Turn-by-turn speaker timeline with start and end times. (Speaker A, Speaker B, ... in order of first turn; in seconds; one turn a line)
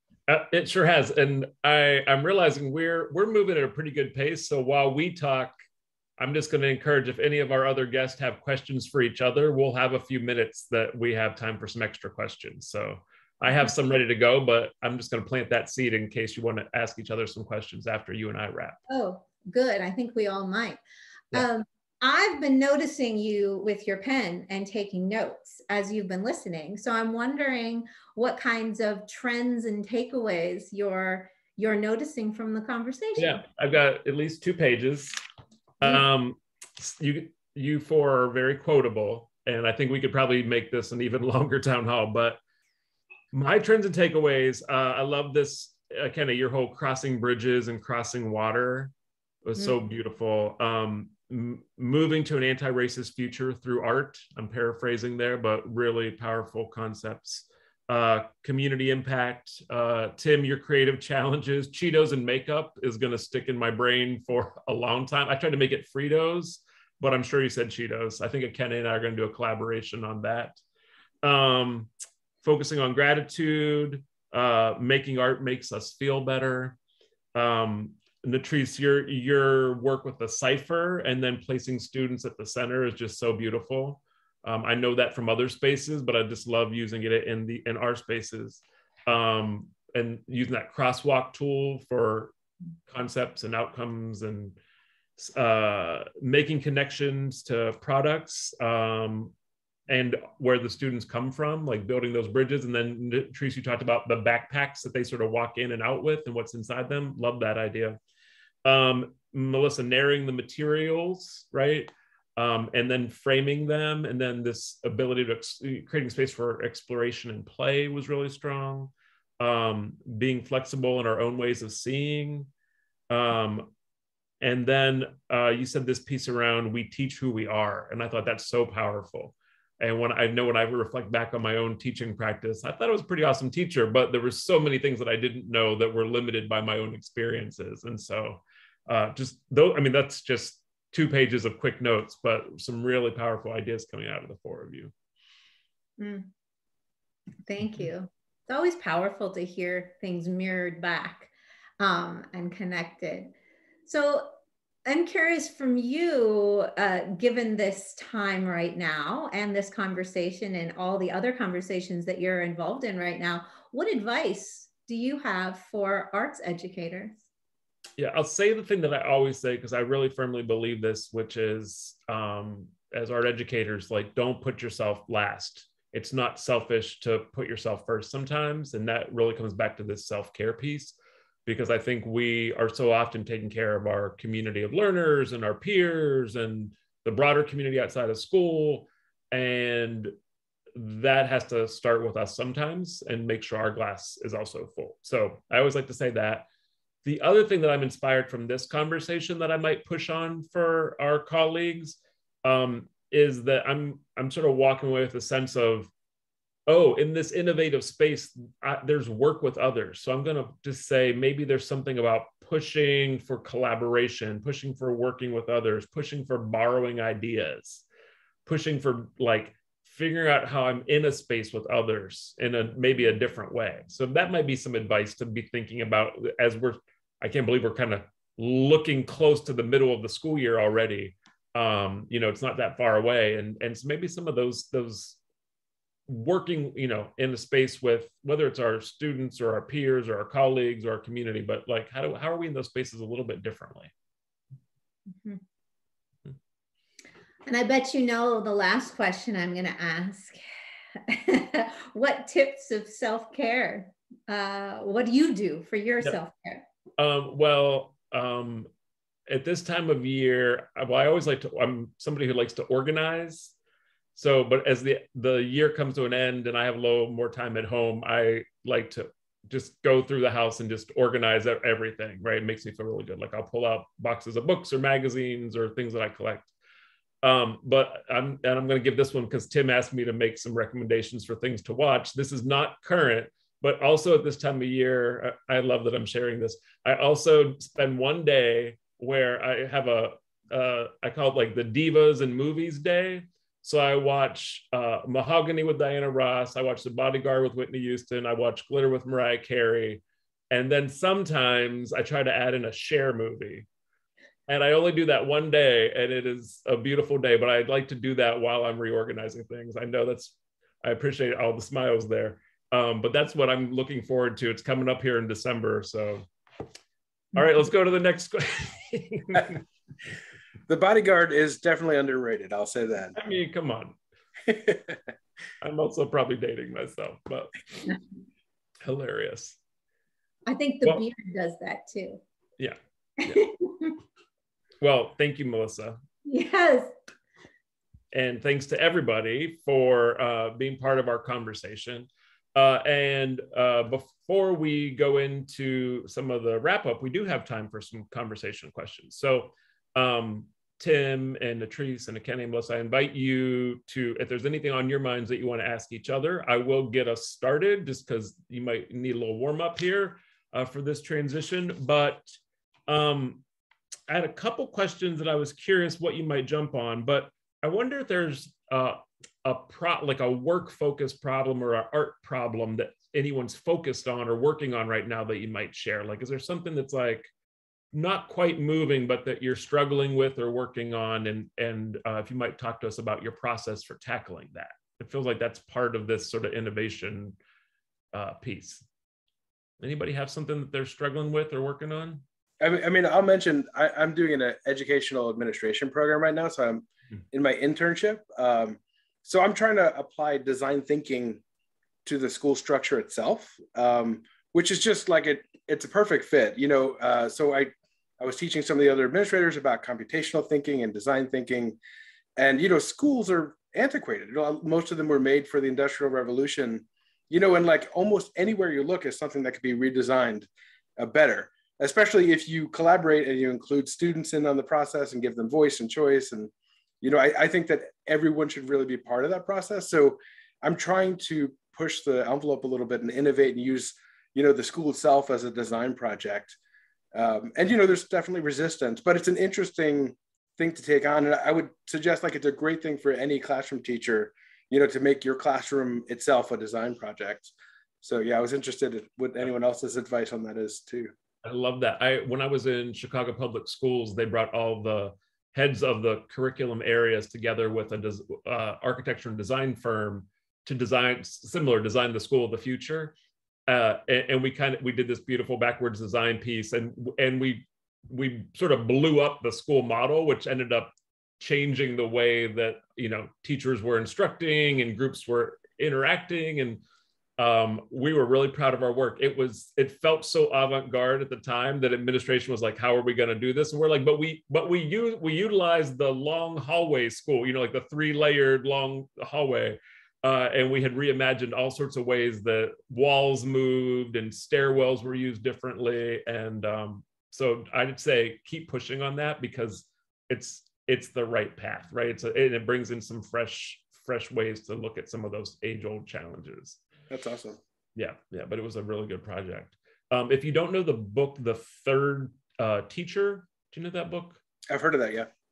Speaker A: 0.3-5.6
Speaker A: 6.2-18.8
Speaker B: 18.9-20.8
Speaker B: 21.3-33.4
Speaker A: 33.2-35.2
Speaker A: 35.8-42.4
Speaker A: 43.3-48.9
Speaker A: 49.5-70.6
Speaker A: 71.2-71.9
Speaker A: 72.4-76.8
Speaker A: 77.3-92.3
Speaker A: 92.9-94.6
Speaker A: 95.2-99.3
Speaker A: 99.9-108.0
Speaker A: 108.7-122.5
Speaker A: 123.1-123.7
Speaker A: 124.4-144.9
Speaker B: 146.0-146.3
Speaker B: 147.5-153.3
Speaker B: 153.9-154.3
Speaker B: 154.9-167.2
Speaker A: 168.0-190.1
Speaker A: 190.8-196.5
Speaker A: 197.1-205.9
Speaker A: 206.7-217.8
Speaker A: 218.5-235.2
Speaker A: 236.1-243.9
Speaker B: 247.5-250.4
Speaker B: 251.1-256.6
Speaker A: 257.0-258.7
Speaker A: 259.3-263.5
Speaker A: 264.2-276.5
Speaker A: 277.2-303.7
Speaker A: 304.5-316.3
Speaker A: 317.3-319.6
Speaker C: 320.7-323.1
Speaker A: 323.1-324.0
Speaker A: 325.6-327.6
Speaker A: 328.8-329.6
Speaker B: 330.5-332.2
Speaker A: 332.6-333.4
Speaker B: 333.2-334.0
Speaker A: 334.8-336.0
Speaker B: 336.2-336.9
Speaker A: 338.1-362.3
Speaker A: 362.9-363.4
Speaker A: 364.1-377.3
Speaker A: 377.9-387.4
Speaker A: 388.1-388.9
Speaker A: 389.8-392.2
Speaker C: 392.6-401.4
Speaker C: 402.1-411.8
Speaker C: 412.4-436.6
Speaker C: 437.1-451.1
Speaker A: 451.4-463.1
Speaker A: 463.7-476.8
Speaker A: 477.4-506.8
Speaker C: 507.1-507.6
Speaker A: 508.0-514.4
Speaker C: 514.7-515.3